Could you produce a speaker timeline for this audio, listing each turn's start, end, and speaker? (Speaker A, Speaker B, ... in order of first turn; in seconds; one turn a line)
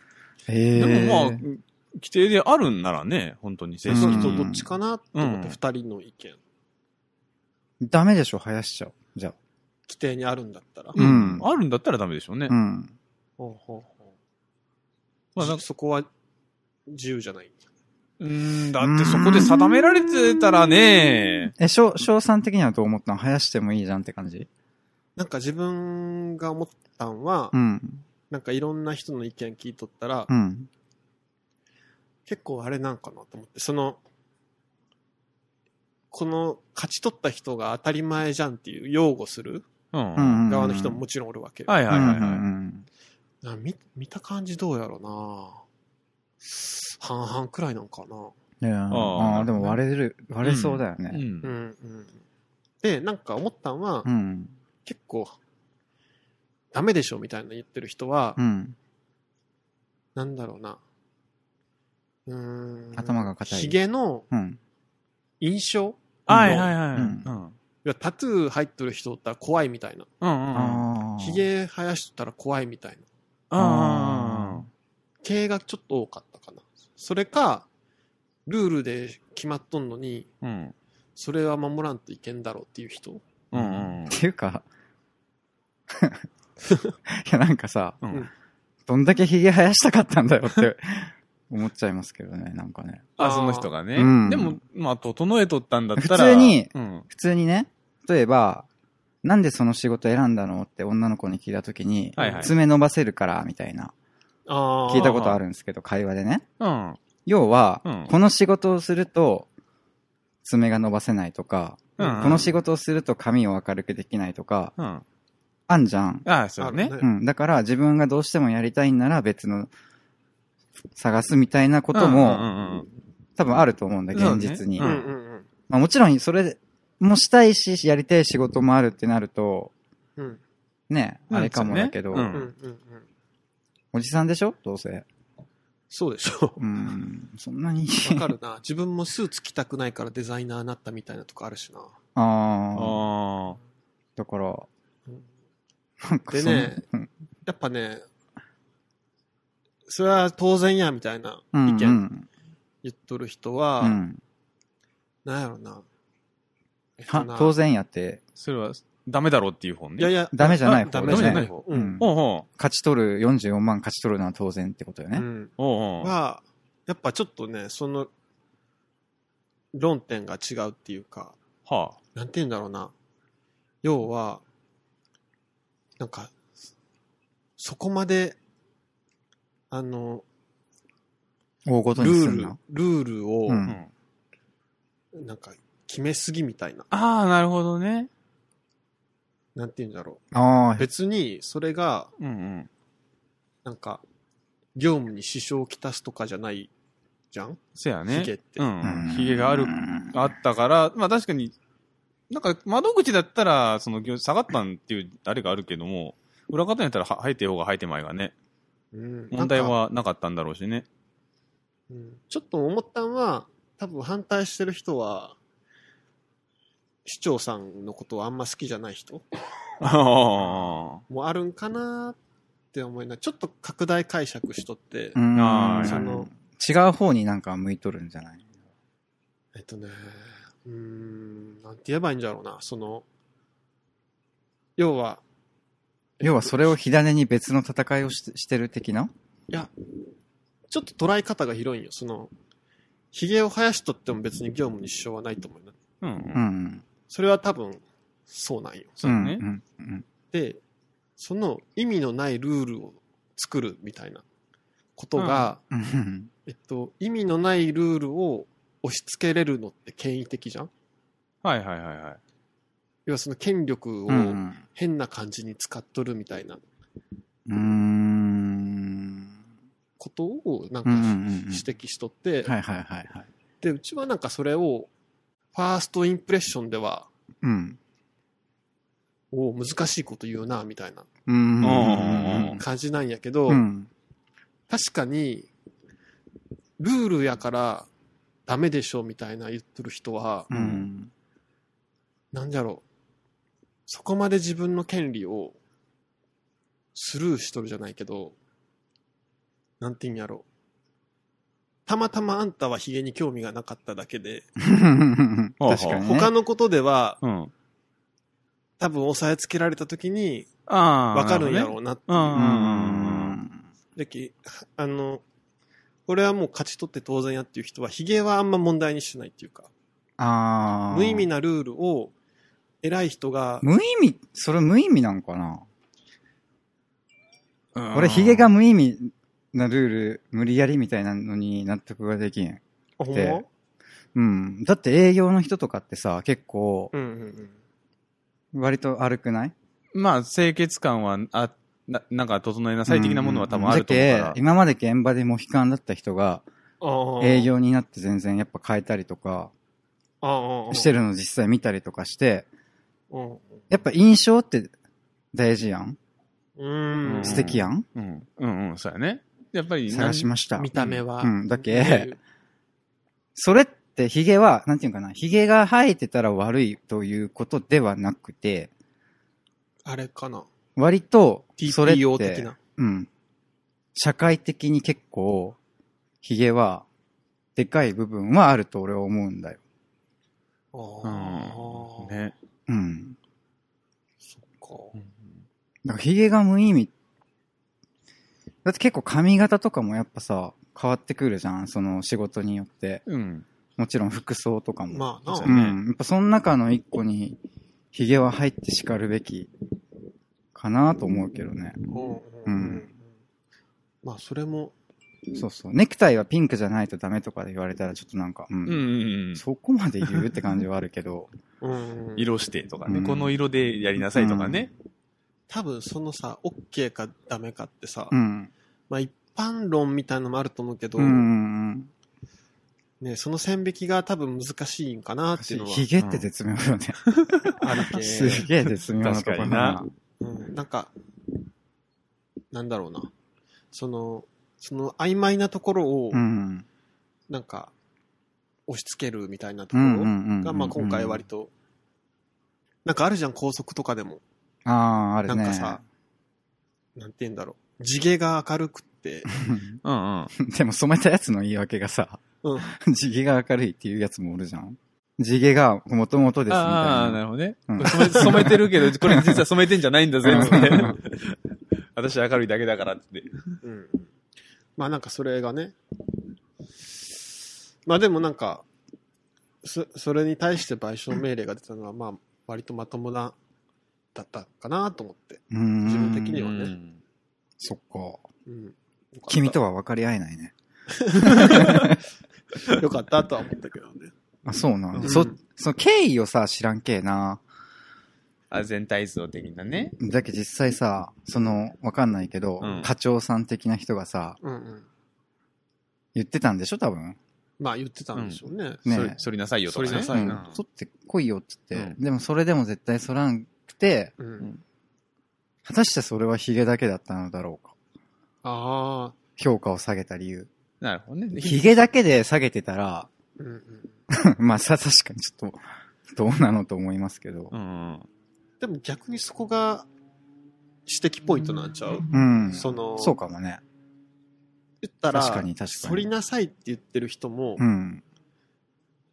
Speaker A: 0.5-1.4
Speaker B: 0.8-4.6
Speaker A: 3.9-4.7
Speaker C: 3.9-6.4
Speaker B: 5.1-5.5
Speaker A: 7.8-9.3
Speaker C: 9.9-11.0
Speaker B: 10.9-12.5
Speaker A: 11.0-11.5
Speaker A: 12.5-12.9
Speaker C: 13.4-14.1
Speaker B: 15.3-15.6
Speaker C: 15.4-16.1
Speaker C: 16.9-17.6
Speaker B: 18.2-21.5
Speaker A: 18.8-20.1
Speaker A: 21.6-24.5
Speaker C: 25.1-27.5
Speaker A: 27.5-28.0
Speaker C: 28.3-30.3
Speaker A: 30.3-30.7
Speaker C: 32.2-34.0
Speaker C: 36.1-39.7
Speaker B: 39.9-40.4
Speaker A: 40.1-41.0
Speaker C: 40.5-42.1
Speaker B: 41.7-42.4
Speaker A: 41.9-42.9
Speaker C: 43.4-45.6
Speaker C: 46.4-48.3
Speaker A: 48.6-51.2
Speaker B: 48.9-49.8
Speaker B: 50.4-51.5
Speaker C: 51.4-52.2
Speaker C: 52.8-54.1
Speaker A: 54.0-54.5
Speaker C: 54.8-55.4
Speaker C: 56.7-58.4
Speaker A: 58.4-58.8
Speaker C: 60.1-60.8
Speaker C: 62.3-64.3
Speaker A: 62.9-63.8
Speaker A: 64.3-64.6
Speaker C: 65.4-66.7
Speaker B: 66.3-67.5
Speaker A: 66.3-67.2
Speaker C: 67.8-70.1
Speaker B: 70.2-70.8
Speaker A: 70.5-71.4
Speaker C: 71.2-73.0
Speaker B: 73.5-74.7
Speaker A: 73.6-74.7
Speaker C: 75.2-77.7
Speaker C: 78.5-80.3
Speaker B: 80.4-80.7
Speaker C: 81.2-83.2
Speaker B: 83.5-84.1
Speaker A: 83.5-84.6
Speaker A: 85.9-86.2
Speaker A: 87.1-88.0
Speaker B: 88.0-88.3
Speaker A: 88.9-93.1
Speaker B: 93.2-97.0
Speaker C: 93.2-93.7
Speaker A: 94.0-94.6
Speaker A: 96.0-98.7
Speaker A: 99.2-103.9
Speaker C: 102.2-102.5
Speaker B: 102.2-102.5
Speaker C: 104.5-105.3
Speaker A: 104.9-106.4
Speaker B: 104.9-105.4
Speaker B: 106.6-107.0
Speaker A: 107.2-109.5
Speaker B: 107.8-108.1
Speaker A: 110.4-114.7
Speaker B: 112.0-112.5
Speaker C: 112.0-112.5
Speaker B: 114.8-115.0
Speaker A: 115.7-116.3
Speaker B: 116.2-116.9
Speaker C: 116.6-117.1
Speaker A: 117.0-119.7
Speaker A: 121.0-122.5
Speaker B: 121.9-122.9
Speaker A: 123.4-125.0
Speaker B: 124.1-125.0
Speaker C: 124.8-125.5
Speaker A: 125.7-129.7
Speaker A: 130.9-132.4
Speaker B: 131.3-132.5
Speaker C: 132.3-133.0
Speaker A: 133.9-135.1
Speaker C: 135.9-136.9
Speaker A: 136.6-138.3
Speaker C: 138.0-141.9
Speaker A: 142.2-143.0
Speaker B: 142.7-143.6
Speaker A: 144.2-144.7
Speaker A: 146.0-147.1
Speaker C: 146.3-146.8
Speaker C: 147.4-148.0
Speaker C: 149.9-152.0
Speaker A: 151.5-152.2
Speaker C: 152.8-154.0
Speaker A: 153.8-154.2
Speaker C: 155.2-155.8
Speaker C: 157.0-157.5
Speaker A: 157.1-158.2
Speaker B: 158.4-160.1
Speaker C: 160.0-162.0
Speaker A: 160.3-165.2
Speaker B: 161.1-162.4
Speaker C: 165.1-168.1
Speaker B: 165.6-166.1
Speaker C: 169.7-171.4
Speaker B: 171.7-172.0
Speaker C: 172.1-172.9
Speaker C: 173.8-174.4
Speaker C: 176.0-176.3
Speaker C: 177.6-178.4
Speaker C: 179.7-180.2
Speaker A: 181.7-182.6
Speaker C: 181.9-183.6
Speaker A: 183.5-183.8
Speaker C: 185.1-186.9
Speaker B: 186.9-188.1
Speaker C: 189.5-190.2
Speaker A: 190.3-190.9
Speaker C: 190.8-192.1
Speaker B: 192.2-192.7
Speaker C: 193.6-194.0
Speaker C: 194.7-196.7
Speaker C: 197.3-198.7
Speaker B: 197.7-201.5
Speaker A: 198.8-200.3
Speaker B: 202.3-208.3
Speaker C: 208.9-209.8
Speaker B: 209.3-210.8
Speaker C: 211.9-215.3
Speaker C: 217.0-219.2
Speaker B: 219.8-221.0
Speaker C: 220.6-222.2
Speaker C: 222.7-225.2
Speaker A: 225.1-228.4
Speaker B: 225.3-226.1
Speaker C: 225.7-226.3
Speaker C: 229.5-233.0
Speaker C: 234.8-235.2
Speaker C: 236.2-236.8
Speaker A: 236.2-239.1
Speaker C: 240.7-242.3
Speaker C: 243.1-245.7
Speaker B: 246.0-246.4
Speaker A: 246.3-246.8
Speaker C: 247.1-249.1
Speaker B: 249.0-249.4
Speaker A: 249.0-250.0
Speaker C: 250.3-250.6
Speaker C: 251.2-254.2
Speaker C: 255.0-255.6
Speaker B: 255.2-255.5
Speaker A: 255.7-256.3
Speaker C: 256.4-260.7
Speaker B: 261.4-262.2
Speaker C: 263.1-266.6
Speaker A: 264.1-264.6
Speaker A: 267.5-269.3
Speaker C: 270.0-272.5
Speaker A: 270.8-271.6
Speaker A: 272.4-273.3
Speaker C: 273.6-274.9
Speaker C: 275.5-277.1
Speaker A: 277.4-277.8
Speaker C: 279.3-281.1
Speaker A: 281.3-282.6
Speaker B: 281.6-282.6
Speaker C: 282.6-283.6
Speaker A: 283.5-283.9
Speaker C: 284.7-285.5
Speaker C: 286.8-287.9
Speaker C: 288.5-290.5
Speaker A: 290.5-291.1
Speaker C: 292.3-292.8
Speaker C: 293.9-295.6
Speaker C: 296.9-298.3
Speaker C: 299.8-300.4
Speaker C: 301.9-304.5
Speaker A: 304.6-306.3
Speaker B: 305.6-306.1
Speaker C: 306.0-307.2
Speaker B: 307.2-307.5
Speaker C: 308.8-310.5
Speaker B: 310.7-313.4
Speaker C: 311.1-312.4
Speaker A: 312.3-313.6
Speaker C: 313.9-315.2
Speaker C: 316.1-319.7
Speaker A: 320.2-321.3
Speaker C: 320.9-322.1
Speaker C: 322.8-323.7
Speaker A: 323.6-325.6
Speaker B: 327.7-328.5
Speaker A: 327.9-332.6
Speaker C: 333.0-333.5
Speaker A: 333.1-333.4
Speaker A: 334.1-336.9
Speaker C: 336.9-337.5
Speaker A: 338.5-339.5
Speaker B: 339.9-344.4
Speaker A: 342.9-346.4
Speaker C: 346.8-347.5
Speaker A: 347.2-349.5
Speaker C: 350.2-350.9
Speaker A: 350.7-352.4
Speaker C: 353.1-353.6
Speaker A: 353.7-354.7
Speaker A: 355.3-356.0
Speaker C: 356.6-357.6
Speaker B: 357.1-361.0
Speaker A: 357.2-357.8
Speaker A: 359.9-362.1
Speaker C: 360.6-362.2
Speaker A: 363.3-368.7
Speaker C: 369.8-370.5
Speaker A: 370.8-373.1
Speaker C: 371.6-372.6
Speaker A: 373.9-375.6
Speaker A: 376.2-376.8
Speaker A: 377.6-379.6
Speaker C: 380.7-382.3
Speaker B: 381.0-382.3
Speaker A: 382.7-383.1
Speaker C: 384.3-385.0
Speaker A: 385.8-386.9
Speaker A: 388.6-393.0
Speaker B: 393.1-393.4
Speaker A: 393.8-397.4
Speaker C: 394.9-395.5
Speaker B: 395.4-395.8
Speaker A: 397.9-399.5
Speaker A: 400.5-401.8
Speaker C: 401.9-403.0
Speaker A: 402.4-402.9
Speaker C: 404.0-404.7
Speaker A: 405.3-411.3
Speaker B: 408.6-409.4
Speaker C: 411.6-412.3
Speaker B: 412.2-414.7
Speaker A: 412.9-413.3
Speaker A: 414.0-414.7
Speaker C: 415.5-418.1
Speaker A: 418.1-418.5
Speaker C: 418.9-421.3
Speaker A: 421.0-421.9
Speaker C: 423.0-425.9
Speaker A: 425.4-427.0
Speaker B: 426.0-426.3
Speaker B: 427.1-427.5
Speaker C: 427.6-428.5
Speaker A: 427.9-429.9
Speaker B: 429.0-429.8
Speaker C: 430.2-430.9
Speaker C: 432.5-433.1
Speaker C: 433.7-436.2
Speaker A: 436.1-436.6
Speaker C: 437.3-437.7
Speaker C: 438.7-441.5
Speaker A: 439.7-441.2
Speaker C: 442.8-444.2
Speaker A: 444.6-445.8
Speaker C: 445.2-445.8
Speaker C: 446.9-449.3
Speaker A: 449.3-449.8
Speaker B: 449.8-450.3
Speaker A: 450.3-459.4
Speaker C: 452.4-452.7
Speaker B: 456.5-461.4
Speaker C: 457.8-458.2
Speaker A: 460.2-460.9
Speaker C: 460.3-461.0
Speaker B: 461.9-463.6
Speaker C: 463.6-464.1
Speaker C: 464.8-465.8
Speaker C: 467.8-468.6
Speaker C: 469.6-473.3
Speaker C: 474.1-476.7
Speaker A: 475.5-476.4
Speaker B: 476.4-477.0
Speaker A: 477.6-478.2
Speaker C: 478.4-479.6
Speaker A: 479.3-480.5
Speaker C: 480.9-482.0
Speaker A: 481.2-482.0
Speaker C: 482.7-484.1
Speaker A: 484.4-487.4
Speaker C: 484.9-485.4
Speaker B: 488.5-489.9
Speaker A: 490.0-494.4
Speaker B: 492.6-492.9
Speaker C: 494.4-494.9
Speaker A: 496.1-497.2
Speaker C: 497.6-499.1
Speaker B: 498.1-500.5
Speaker A: 498.9-499.2
Speaker C: 499.7-500.4
Speaker A: 500.1-504.1
Speaker C: 504.2-504.5
Speaker A: 505.6-507.7
Speaker C: 508.4-509.1
Speaker A: 509.4-510.5
Speaker B: 510.8-511.8
Speaker A: 511.4-513.1
Speaker C: 513.4-513.9
Speaker A: 514.1-517.5
Speaker B: 517.5-518.0
Speaker C: 518.6-519.9
Speaker C: 520.9-523.2
Speaker A: 522.1-523.6
Speaker C: 524.8-527.6
Speaker A: 525.1-526.1
Speaker A: 527.6-528.0